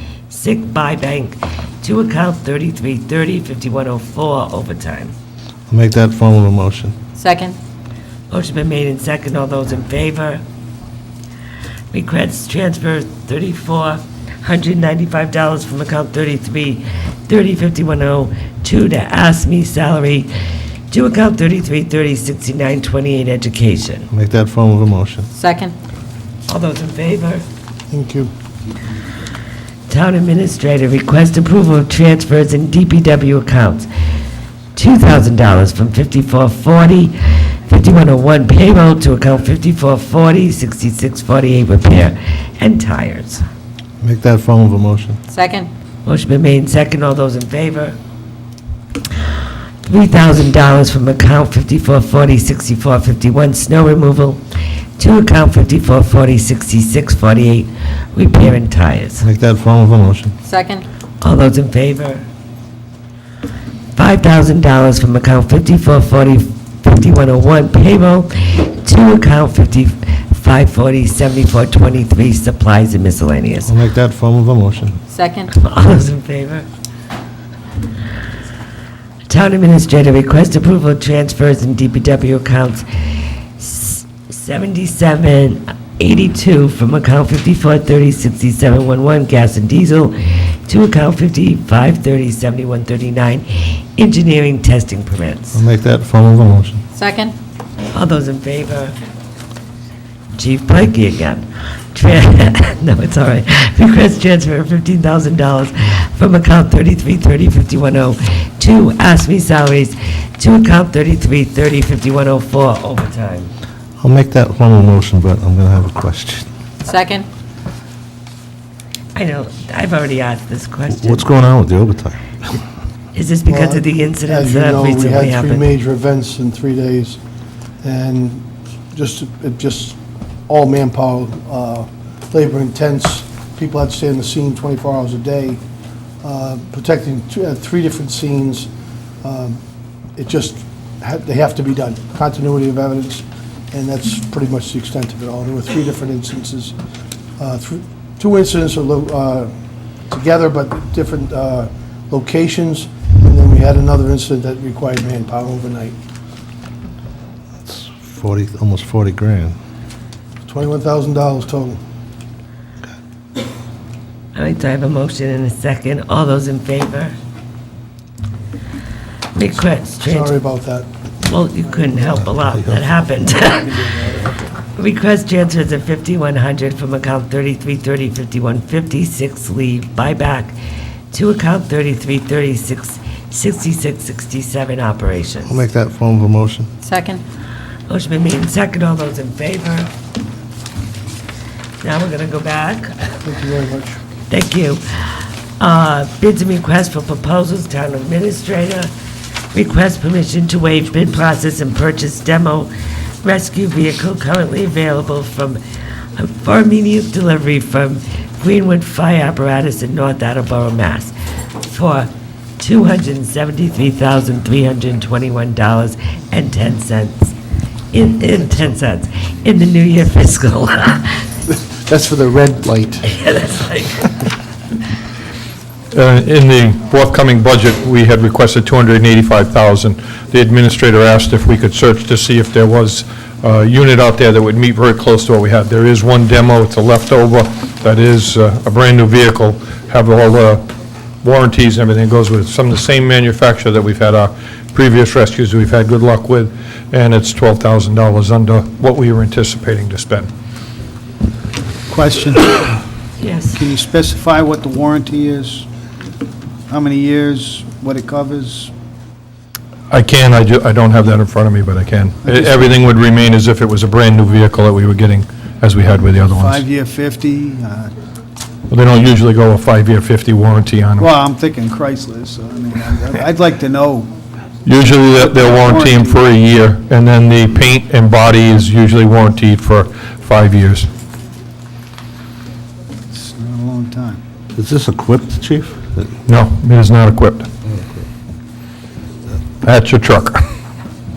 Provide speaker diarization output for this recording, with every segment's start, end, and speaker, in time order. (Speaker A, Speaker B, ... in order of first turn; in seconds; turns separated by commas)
Speaker A: 0.3-5.1, Speaker B: 5.7-6.9, Speaker C: 7.2-7.6, Speaker A: 8.3-10.4, Speaker A: 11.9-20.3, Speaker A: 20.9-24.1, Speaker B: 24.1-25.3, Speaker C: 25.3-25.7, Speaker A: 26.5-27.4, Speaker D: 27.9-28.3, Speaker A: 29.9-33.9, Speaker A: 34.8-43.4, Speaker B: 44.0-45.2, Speaker C: 45.3-45.7, Speaker A: 46.0-48.0, Speaker A: 49.8-54.4, Speaker A: 55.0-59.2, Speaker B: 59.2-60.4, Speaker C: 60.4-60.8, Speaker A: 61.2-62.2, Speaker A: 63.9-73.7, Speaker B: 73.7-75.0, Speaker C: 75.1-75.5, Speaker A: 75.5-76.7, Speaker A: 79.3-95.6, Speaker B: 95.5-96.8, Speaker C: 96.9-97.3, Speaker A: 97.9-98.9, Speaker A: 100.3-113.5, Speaker B: 114.0-116.5, Speaker C: 116.8-117.3, Speaker A: 119.1-121.3, Speaker B: 120.9-122.5, Speaker A: 123.1-125.7, Speaker D: 123.5-127.2, Speaker D: 127.8-130.0, Speaker D: 130.5-135.6, Speaker D: 136.2-138.7, Speaker D: 139.2-139.6, Speaker D: 140.2-146.7, Speaker D: 147.4-149.5, Speaker D: 150.1-155.9, Speaker B: 157.6-159.6, Speaker D: 160.4-161.8, Speaker A: 164.3-167.2, Speaker A: 169.3-170.3, Speaker D: 170.1-170.9, Speaker A: 171.2-180.6, Speaker B: 172.1-172.9, Speaker A: 181.1-185.6, Speaker B: 185.4-186.7, Speaker C: 186.8-187.2, Speaker A: 187.9-189.9, Speaker A: 191.8-193.2, Speaker D: 193.2-194.0, Speaker A: 194.3-198.9, Speaker A: 199.5-202.7, Speaker A: 203.2-205.6, Speaker A: 206.2-217.3, Speaker A: 217.9-221.3, Speaker D: 221.6-223.0, Speaker A: 223.0-224.1, Speaker E: 225.9-240.6, Speaker E: 241.2-250.3, Speaker F: 251.9-252.8, Speaker A: 253.2-253.6, Speaker F: 253.6-255.7, Speaker F: 256.7-258.7, Speaker E: 259.9-266.6, Speaker F: 262.2-262.8, Speaker F: 265.8-267.9, Speaker E: 268.7-271.1, Speaker F: 271.0-274.1, Speaker E: 274.6-280.9, Speaker F: 275.1-276.2, Speaker F: 283.1-284.2, Speaker B: 284.5-286.1, Speaker E: 286.2-287.5, Speaker B: 287.6-288.1, Speaker E: 289.6-290.4